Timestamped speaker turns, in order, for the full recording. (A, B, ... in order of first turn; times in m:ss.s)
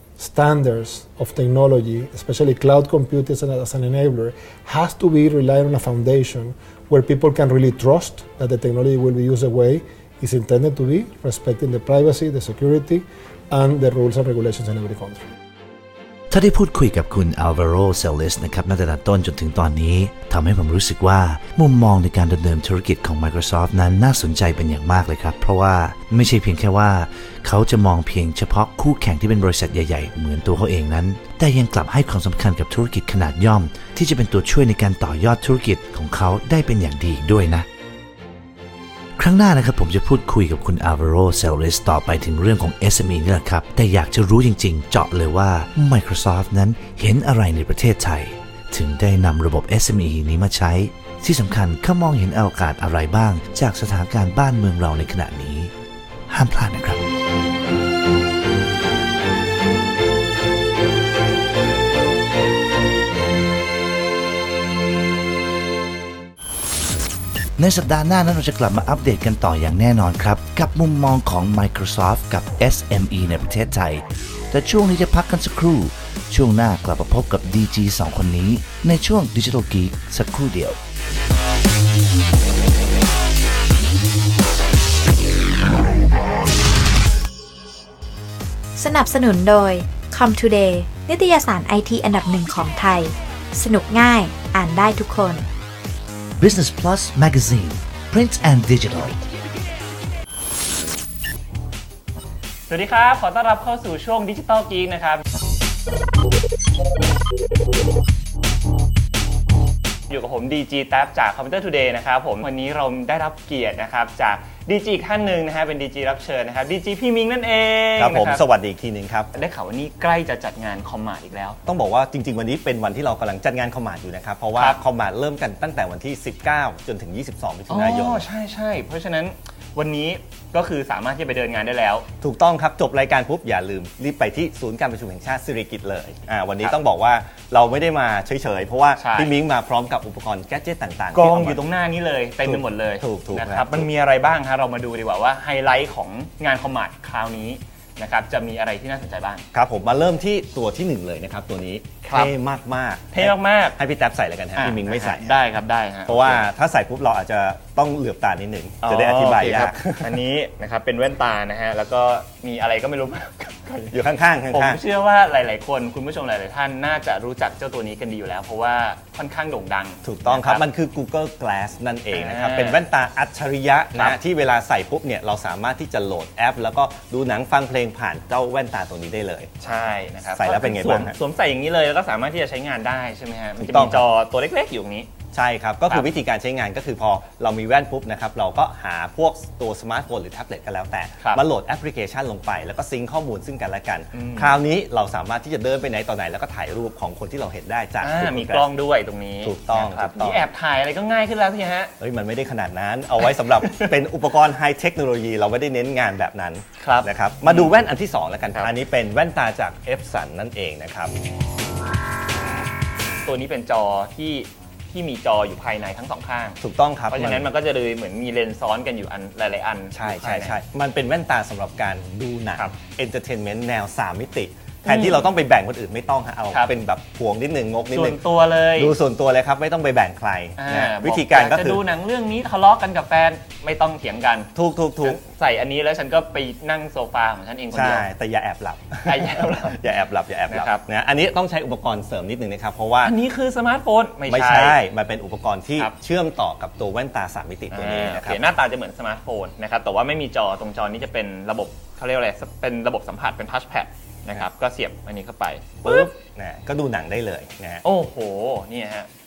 0:00.2-0:15.2 A
0:16.3-0:37.7 B
0:39.2-0:55.7 B
0:56.3-0:57.0 B
1:07.6-1:20.8 B
1:28.8-1:35.4 C
1:36.4-1:39.2 B
1:42.7-1:45.2 D
1:50.1-1:58.4 D
1:58.0-1:59.3 E
1:59.3-2:01.6 D
2:01.6-2:08.2 E
2:07.7-2:12.0 D
2:12.2-2:21.6 E
2:19.0-2:19.3 D
2:21.1-2:29.4 D
2:22.4-2:23.9 E
2:29.5-2:35.4 E
2:32.1-2:32.3 D
2:33.1-2:33.8 D
2:34.6-2:36.4 D
2:36.0-2:40.2 E
2:38.8-2:43.9 D
2:43.9-2:44.8 E
2:44.5-2:50.6 D
2:50.0-2:59.5 E
2:52.1-2:52.8 D
2:59.6-3:05.1 D
3:00.3-3:01.2 E
3:03.6-3:04.0 E
3:05.3-3:18.7 E
3:14.1-3:14.6 D
3:18.0-3:21.9 D
3:19.4-3:20.4 E
3:22.0-3:31.1 E
3:26.8-3:27.7 D
3:33.2-3:36.6 D
3:36.6-3:37.5 E
3:37.1-3:40.6 D
3:39.9-3:48.2 E
3:44.9-3:45.3 D
3:47.9-3:48.9 D
3:48.7-3:51.8 E
3:50.6-3:54.5 D
3:54.5-3:55.2 E
3:55.0-3:58.1 D
3:57.7-4:03.1 E
3:59.0-3:59.8 D
4:00.5-4:00.8 D
4:03.0-4:04.8 D
4:04.3-4:08.4 E
4:07.7-4:16.1 D
4:15.8-4:17.8 E
4:17.8-4:19.1 D